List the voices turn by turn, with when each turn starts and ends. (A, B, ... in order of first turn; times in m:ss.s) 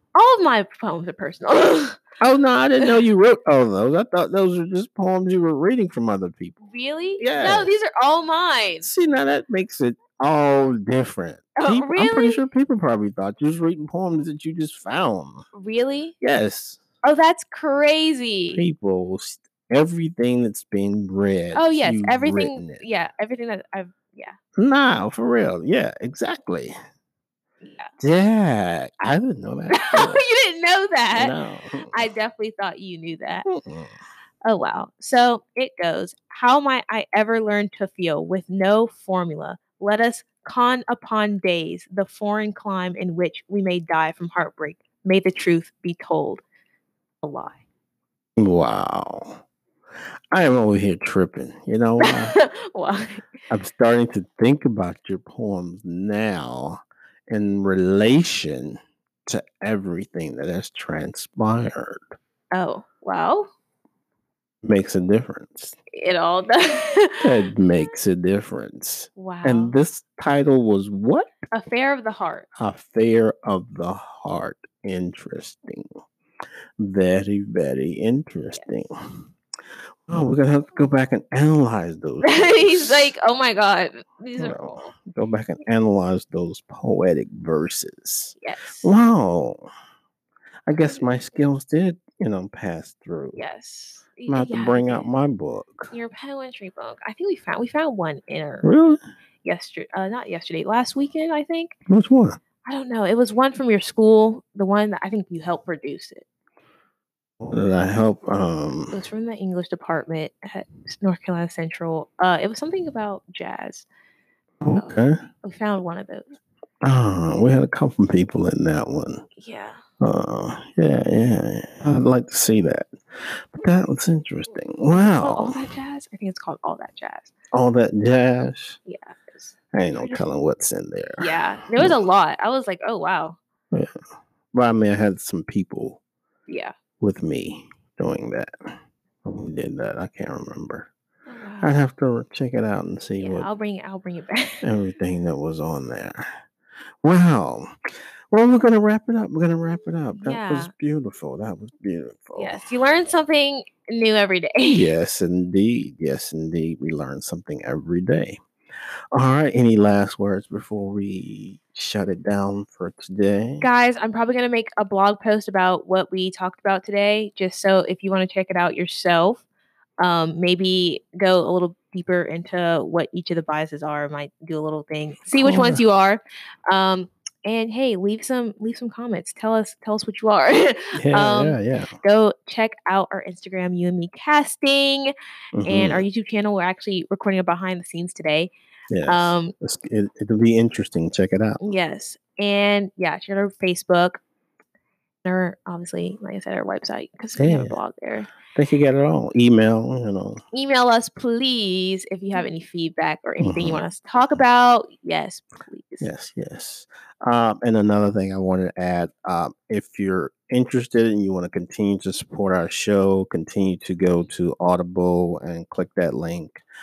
0:00.1-0:02.0 A
0:02.2-0:06.6 B
0:06.6-0:08.9 A
0:07.2-0:07.7 B
0:08.8-0:15.4 B
0:11.6-0:12.4 A
0:15.5-0:16.1 A
0:16.2-0:16.8 B
0:17.0-0:18.6 A
0:18.5-0:22.8 B
0:21.5-0:24.4 A
0:24.6-0:26.7 B
0:27.6-0:27.9 A
0:28.0-0:30.2 B
0:29.7-0:31.3 A
0:31.1-0:32.1 B
0:31.9-0:33.4 A
0:33.4-0:33.9 B
0:34.5-0:46.4 A
0:47.2-0:47.6 A
0:48.4-0:49.4 B
0:50.3-0:52.4 B
0:52.0-0:53.3 A
0:53.5-1:02.0 B
1:02.5-1:03.5 A
1:04.6-1:05.8 B
1:05.9-1:07.5 A
1:07.2-1:11.4 B
1:09.2-1:09.8 A
1:11.5-1:12.4 A
1:12.6-1:15.9 B
1:16.8-1:19.2 B
1:20.1-1:23.1 B
1:22.2-1:24.9 A
1:24.4-1:29.7 B
1:28.4-1:28.9 A
1:30.7-1:33.4 B
1:33.4-1:35.1 A
1:34.3-1:35.9 B
1:35.9-1:38.7 A
1:38.6-1:39.0 B
1:39.4-1:41.7 A
1:41.9-1:42.4 B
1:42.6-1:46.2 A
1:47.4-1:49.0 B
1:48.9-1:53.8 A
1:54.6-1:55.2 B
1:55.4-1:56.3 A
1:56.8-1:59.2 B
1:59.4-1:59.8 A
2:00.0-2:05.6 B
2:05.2-2:07.3 A
2:07.5-2:08.8 B
2:08.8-2:10.2 A
2:09.7-2:12.0 B
2:11.2-2:13.4 A
2:14.5-2:16.0 B
2:16.5-2:16.7 A
2:17.0-2:18.5 B
2:19.2-2:20.9 B
2:21.3-2:21.7 A
2:21.6-2:23.5 B
2:23.2-2:24.6 A
2:24.6-2:26.4 B
2:27.0-2:27.7 B
2:28.3-2:32.6 B
2:30.2-2:30.7 A
2:32.3-2:34.9 A
2:34.7-2:38.4 B
2:39.1-2:43.6 B
2:43.6-2:49.4 A
2:50.0-3:05.1 A
2:55.3-2:55.8 B
3:00.9-3:02.0 B
3:05.5-3:06.0 B
3:05.6-3:08.5 A
3:08.9-3:11.7 B
3:09.0-3:09.5 A
3:11.6-3:14.2 A
3:15.2-3:18.3 A
3:17.4-3:17.8 B
3:18.5-3:20.4 B
3:20.5-3:26.1 A
3:23.4-3:23.8 B
3:26.0-3:36.6 B